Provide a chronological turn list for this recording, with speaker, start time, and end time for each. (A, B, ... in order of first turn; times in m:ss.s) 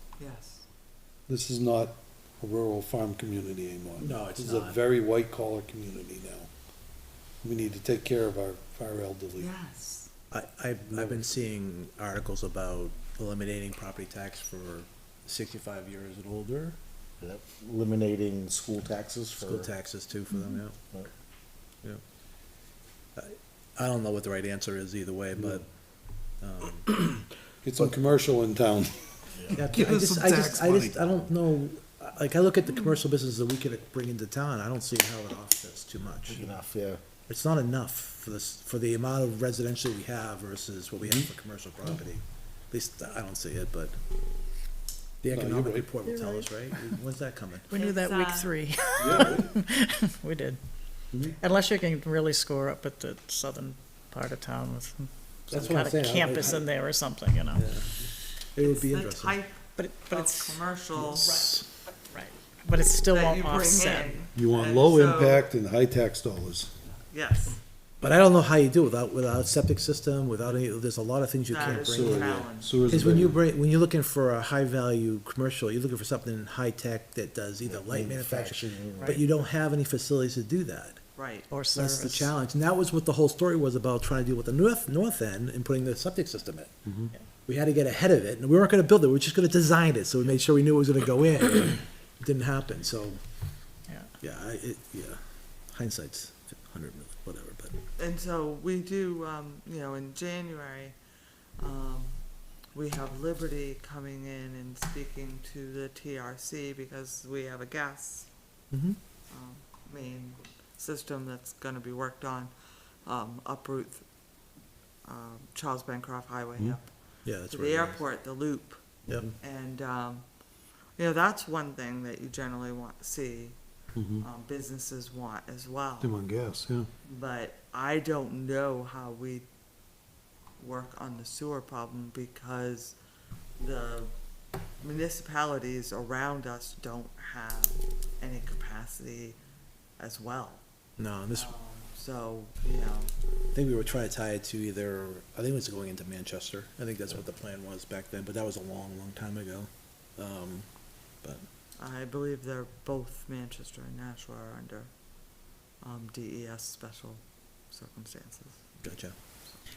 0:00.2-0:00.7 A
0:01.3-0:06.5 B
0:04.0-0:04.8 C
0:07.4-0:09.5 B
0:09.4-0:10.1 A
0:10.3-0:16.8 C
0:17.2-0:19.7 D
0:19.4-0:20.8 C
0:23.2-0:25.7 C
0:25.3-0:25.6 B
0:26.4-0:27.1 C
0:27.6-0:31.1 B
0:29.6-0:36.6 C
0:36.3-0:37.0 D
0:37.3-0:44.0 C
0:41.0-0:41.3 B
0:45.2-0:47.7 C
0:45.3-0:45.9 B
0:46.1-0:46.9 E
0:47.7-0:50.6 E
0:47.7-0:48.5 A
0:49.0-0:49.5 B
0:51.4-0:57.6 E
0:55.5-0:56.7 C
0:57.5-0:57.9 C
0:58.5-0:59.4 C
0:58.6-1:01.4 A
0:59.8-1:04.2 E
1:01.0-1:01.6 C
1:03.1-1:05.5 A
1:04.4-1:06.7 B
1:06.9-1:07.6 A
1:08.0-1:21.0 C
1:11.5-1:12.8 A
1:11.6-1:13.4 B
1:17.6-1:19.2 D
1:21.2-1:21.5 A
1:21.5-1:22.3 E
1:21.7-1:26.7 C
1:26.9-1:27.1 B
1:27.5-1:33.2 C
1:34.2-1:35.2 C
1:35.7-1:37.8 C
1:38.0-1:41.0 A
1:41.6-1:42.2 A
1:42.7-1:48.3 A
1:48.7-1:49.0 C
1:49.3-1:52.5 A
1:53.0-1:54.0 A
1:55.0-2:00.3 A
1:57.2-1:58.0 C
1:59.1-1:59.3 C
2:01.0-2:03.6 A
2:04.0-2:04.3 B
2:04.2-2:06.2 A
2:06.0-2:06.9 B
2:07.1-2:09.5 A
2:10.6-2:13.0 A
2:13.6-2:14.1 A
2:14.8-2:19.4 A
2:20.0-2:20.6 A
2:21.0-2:21.5 C
2:21.3-2:23.1 A
2:23.5-2:30.7 C
2:31.8-2:34.9 A
2:35.8-2:38.7 A
2:38.8-2:39.2 C